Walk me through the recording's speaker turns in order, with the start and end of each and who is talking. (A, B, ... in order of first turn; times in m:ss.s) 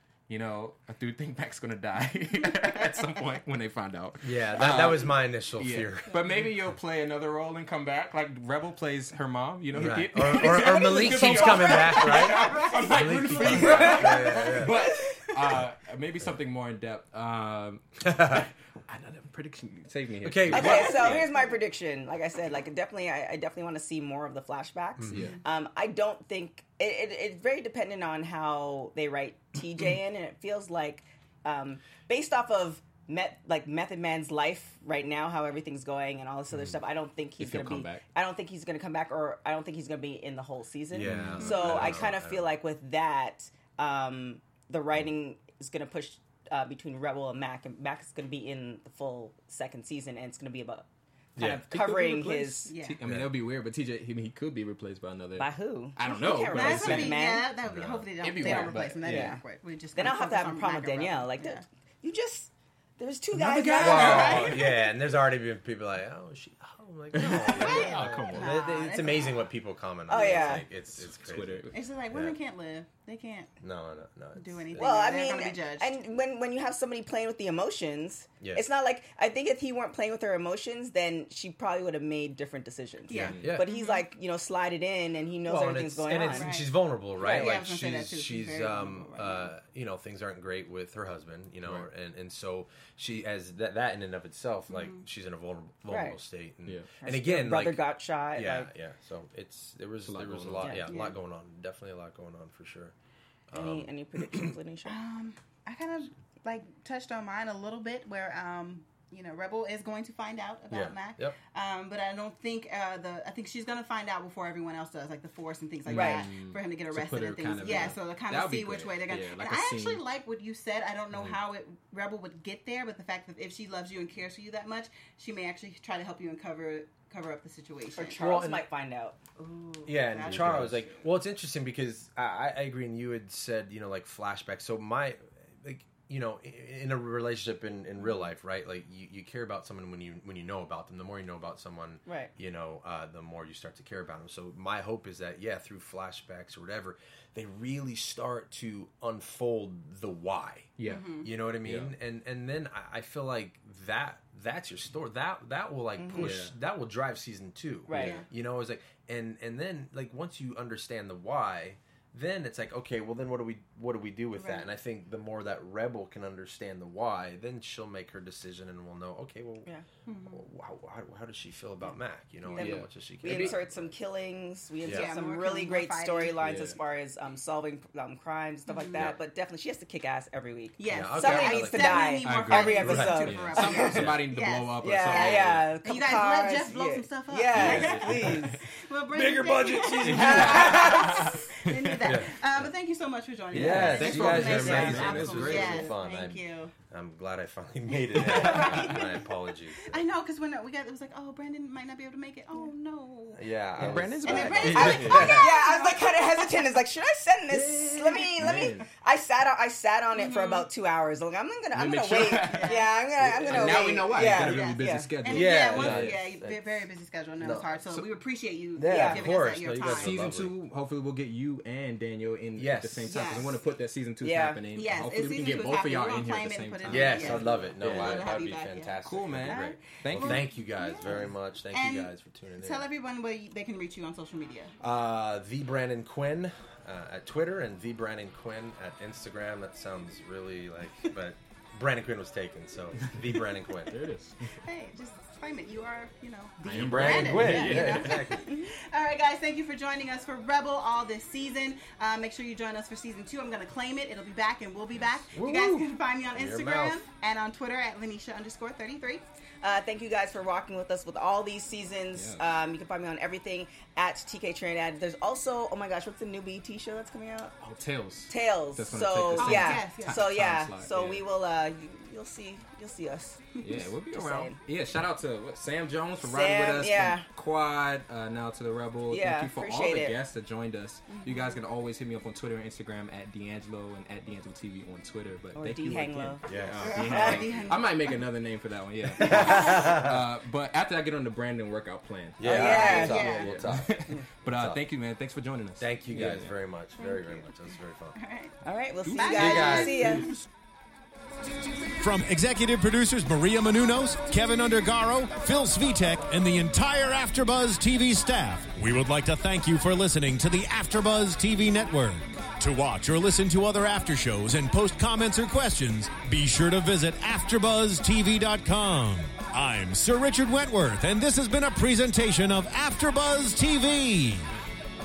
0:00.3-0:21.3 A
0:04.2-0:06.4 B
0:09.7-0:14.8 B
0:11.5-0:13.0 C
0:13.6-0:14.6 C
0:13.7-0:14.2 D
0:14.8-0:15.2 D
0:18.0-0:18.5 B
0:20.2-0:21.3 B
0:20.5-0:52.7 D
0:25.0-0:25.3 B
0:37.4-0:38.0 A
0:40.9-0:42.5 B
0:41.1-0:42.1 A
0:41.4-0:41.9 C
0:51.4-0:51.6 B
0:51.4-0:57.3 A
0:52.7-0:53.0 C
0:53.0-0:53.4 B
0:55.4-0:57.5 D
0:56.5-1:01.6 C
0:57.6-0:58.1 B
0:58.2-0:59.4 A
0:58.4-0:59.4 D
1:00.0-1:04.4 D
1:03.3-1:04.7 A
1:03.8-1:12.4 B
1:03.8-1:04.6 C
1:07.1-1:08.6 A
1:07.3-1:09.4 C
1:10.1-1:10.7 D
1:10.9-1:11.9 A
1:11.7-1:13.6 C
1:13.6-1:15.2 B
1:14.4-1:15.9 C
1:14.8-1:26.6 D
1:18.4-1:18.7 B
1:23.1-1:24.1 C
1:23.1-1:23.6 A
1:23.4-1:23.7 B
1:25.4-1:43.0 B
1:26.3-1:29.5 C
1:27.2-1:27.5 D
1:34.7-1:35.0 C
1:35.9-1:36.2 D
1:37.0-1:38.7 D
1:40.0-1:40.8 A
1:40.6-1:40.9 D
1:40.9-1:41.2 C
1:43.5-1:44.6 B
1:43.5-1:45.0 D
1:44.8-2:08.5 C
1:50.7-1:51.4 B
1:55.9-2:00.0 A
1:55.9-1:56.3 D
2:08.0-2:09.2 D
2:08.2-2:08.7 B
2:09.4-2:10.7 C
2:09.9-2:49.7 B
2:10.2-2:10.8 A
2:22.1-2:22.3 D
2:30.8-2:31.1 A
2:30.8-2:31.3 C
2:31.6-2:31.9 A
2:36.0-2:36.3 D
2:36.1-2:36.6 A
2:37.9-2:38.2 D
2:37.9-2:38.3 C
2:44.4-2:44.7 C
2:50.1-2:50.4 C
2:50.3-2:54.0 B
2:52.5-3:04.2 D
2:52.6-2:53.6 A
2:54.8-2:55.1 B
2:54.9-2:56.4 C
2:56.4-2:56.8 A
2:58.7-2:59.1 C
3:00.8-3:16.7 C
3:00.9-3:02.2 B
3:02.2-3:05.7 A
3:02.8-3:03.2 B
3:04.8-3:08.6 D
3:07.5-3:08.6 A
3:07.5-3:08.0 B
3:09.1-3:10.9 B
3:10.0-3:12.0 A
3:10.0-3:11.5 D
3:12.0-3:12.4 B
3:13.5-3:15.9 A
3:13.5-3:20.0 B
3:13.6-3:15.8 D
3:18.1-3:23.5 C
3:18.3-3:18.9 D
3:23.4-3:25.6 B
3:23.8-3:25.5 A
3:24.2-3:26.6 C
3:24.6-3:35.1 D
3:27.5-3:28.9 A
3:30.1-3:30.7 C
3:31.7-3:36.2 A
3:32.4-3:32.9 C
3:33.2-3:33.9 B
3:34.1-3:40.4 C
3:35.2-3:36.8 B
3:37.4-3:37.7 B
3:38.8-3:40.5 B
3:38.9-3:39.3 D
3:39.8-3:48.4 A
3:42.6-3:43.3 B
3:43.1-3:43.5 C
3:44.2-3:44.6 D
3:44.7-3:54.8 C
3:46.9-3:52.9 B
3:49.0-3:50.5 A
3:54.8-4:04.0 B
4:03.0-4:04.6 A
4:04.6-4:19.2 C
4:06.6-4:08.5 B
4:06.7-4:08.2 A
4:07.6-4:07.9 D
4:15.3-4:17.0 B
4:19.6-4:27.6 D
4:22.1-4:22.4 A
4:27.6-4:31.2 A
4:28.3-4:34.6 D
4:29.4-4:30.3 C
4:33.6-4:56.5 A
4:36.2-4:37.2 D
4:39.1-4:40.2 D
4:41.1-4:41.6 C
4:45.6-4:46.5 D
4:46.5-4:47.3 B
4:46.8-4:48.2 C
4:47.0-4:47.7 D
4:49.2-4:50.2 B
4:52.4-4:54.8 B
4:52.4-4:53.4 D
4:52.5-4:53.5 C
4:55.8-4:58.2 B
4:57.0-4:57.5 C
4:58.2-4:58.6 C
4:58.6-5:00.3 D
4:59.0-5:00.2 A
4:59.1-5:00.4 C
4:59.4-5:00.2 B
5:01.8-5:24.5 E